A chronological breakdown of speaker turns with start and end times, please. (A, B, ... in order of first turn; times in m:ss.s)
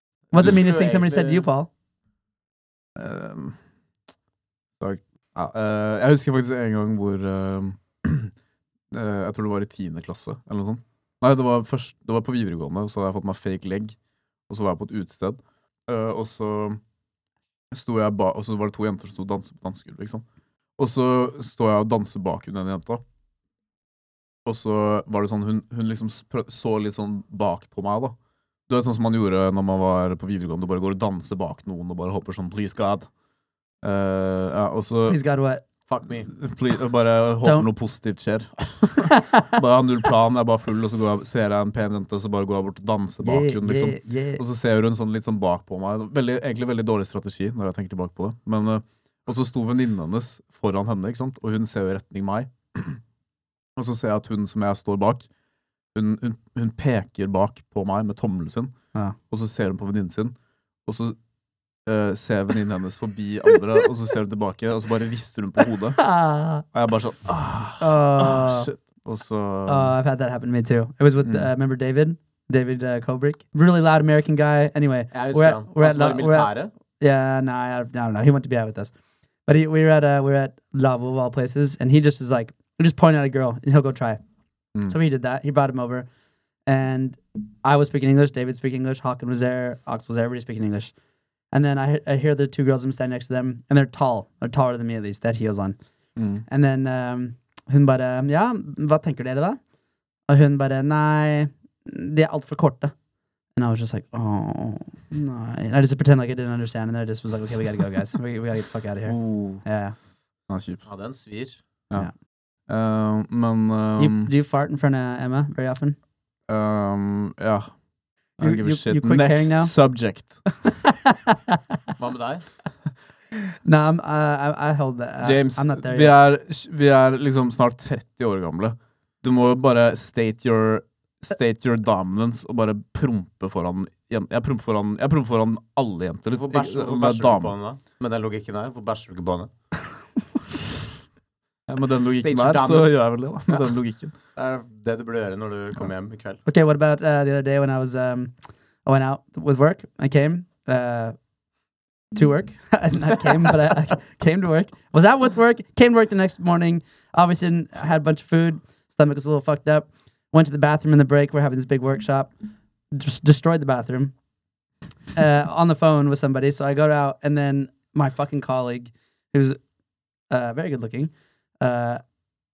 0:00.3-0:01.7 A
0:00.3-0:01.5 B
0:03.0-0:03.6 C
0:04.8-0:08.3 C
0:08.9-0:14.0 C
0:14.5-0:16.8 C
0:17.7-0:20.2 C
0:20.8-0:23.0 C
0:24.4-0:28.2 C
0:28.7-0:33.1 C
0:33.8-0:35.2 C
0:35.1-0:35.6 A
0:35.9-0:36.3 B
0:36.2-0:53.0 C
0:43.2-0:44.4 A
0:53.8-0:55.3 C
0:55.9-0:58.7 C
0:59.3-1:00.3 C
1:00.8-1:01.2 C
1:01.8-1:06.0 C
1:06.0-1:06.6 A
1:06.7-1:09.9 C
1:07.8-1:08.7 A
1:09.6-1:18.9 A
1:11.2-1:11.5 C
1:15.1-1:16.7 B
1:19.4-1:24.2 A
1:24.9-1:26.1 A
1:26.7-1:30.9 A
1:31.5-1:35.8 A
1:36.2-1:36.4 C
1:36.5-1:39.6 A
1:40.3-1:42.9 A
1:43.6-1:50.0 A
1:49.0-1:49.6 C
1:50.5-1:50.8 C
1:50.8-1:51.6 B
1:52.7-1:54.3 C
1:54.0-1:56.0 A
1:56.5-1:57.7 C
1:58.4-2:00.4 C
1:58.4-1:59.7 A
2:00.9-2:01.4 A
2:02.0-2:02.4 B
2:03.6-2:06.1 A
2:05.2-2:17.5 C
2:16.3-2:19.5 B
2:21.7-2:24.1 C
2:22.1-2:23.0 B
2:24.4-2:26.4 B
2:26.4-2:31.2 A
2:32.1-2:42.3 A
2:42.9-2:44.1 A
2:45.1-2:49.6 A
2:50.3-2:52.0 A